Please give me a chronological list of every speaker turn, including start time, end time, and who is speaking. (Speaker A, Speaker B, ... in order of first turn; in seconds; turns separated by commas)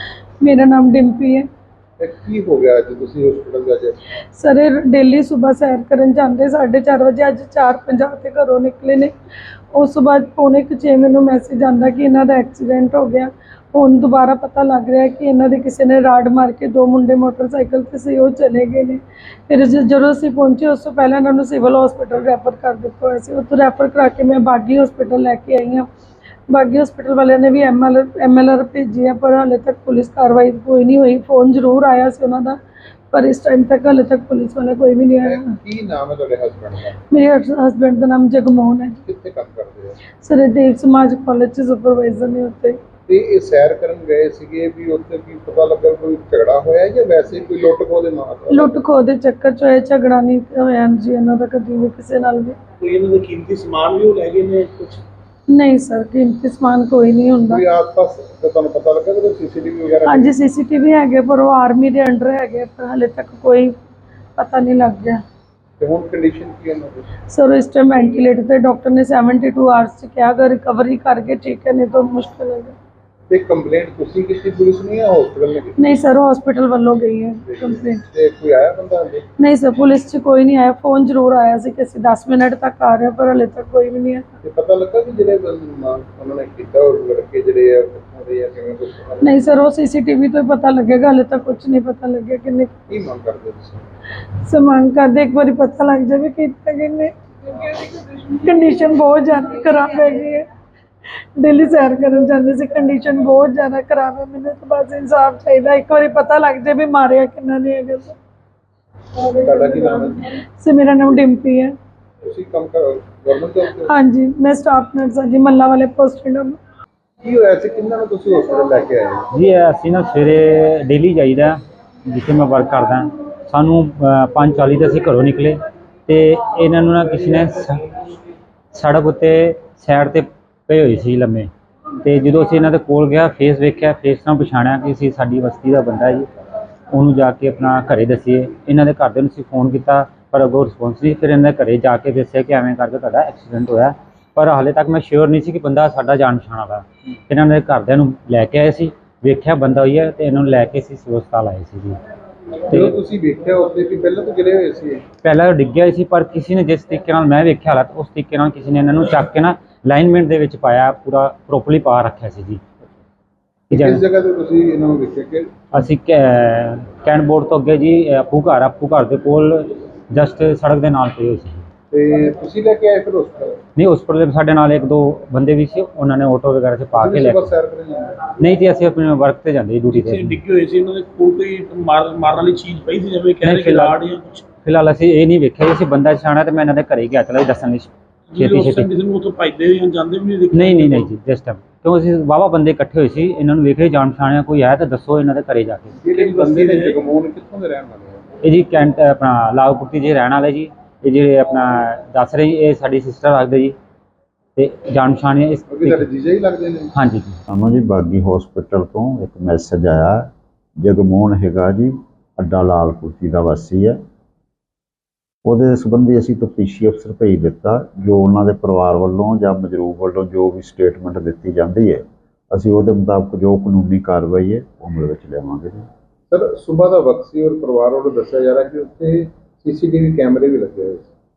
Speaker A: 0.4-1.5, Speaker B: 2.0-4.0, Speaker A: 4.3-9.1, Speaker A: 9.7-25.9, Speaker A: 26.5-32.6, Speaker A: 33.1-35.5, Speaker B: 35.2-37.0, Speaker A: 37.1-39.0, Speaker B: 39.0-40.0, Speaker A: 40.1-42.8, Speaker B: 43.1-48.8, Speaker A: 48.5-52.5, Speaker C: 52.8-55.0, Speaker A: 55.5-57.6, Speaker B: 57.5-60.4, Speaker A: 60.0-63.7, Speaker A: 64.4-65.2, Speaker B: 65.8-67.0, Speaker A: 67.3-72.7, Speaker B: 73.3-76.0, Speaker A: 75.8-78.0, Speaker B: 77.4-79.2, Speaker A: 79.4-84.3, Speaker B: 84.4-89.4, Speaker A: 89.2-92.7, Speaker B: 92.9-93.8, Speaker A: 94.5-100.5, Speaker A: 101.3-108.1, Speaker A: 109.3-111.8, Speaker B: 109.4-110.2, Speaker B: 112.2-113.9, Speaker A: 113.8-116.6, Speaker B: 117.2-119.3, Speaker D: 119.3-121.6, Speaker D: 122.1-127.8, Speaker D: 128.7-131.5, Speaker D: 132.0-136.2, Speaker D: 136.9-152.0, Speaker D: 152.7-153.0, Speaker B: 152.7-155.0, Speaker D: 155.2-162.6, Speaker B: 163.7-165.5, Speaker D: 163.7-164.0, Speaker D: 165.7-171.6, Speaker B: 171.9-173.6, Speaker D: 173.8-177.5, Speaker B: 176.9-178.2, Speaker D: 178.4-180.4, Speaker C: 179.9-184.5, Speaker D: 183.4-184.0, Speaker D: 184.6-188.9, Speaker C: 188.3-191.1, Speaker D: 190.5-195.9, Speaker B: 195.9-198.3, Speaker C: 196.1-197.0, Speaker D: 198.4-203.8, Speaker D: 204.6-206.1, Speaker B: 205.7-206.9, Speaker D: 206.9-207.4, Speaker E: 207.5-214.0, Speaker E: 215.4-225.8, Speaker B: 226.3-231.1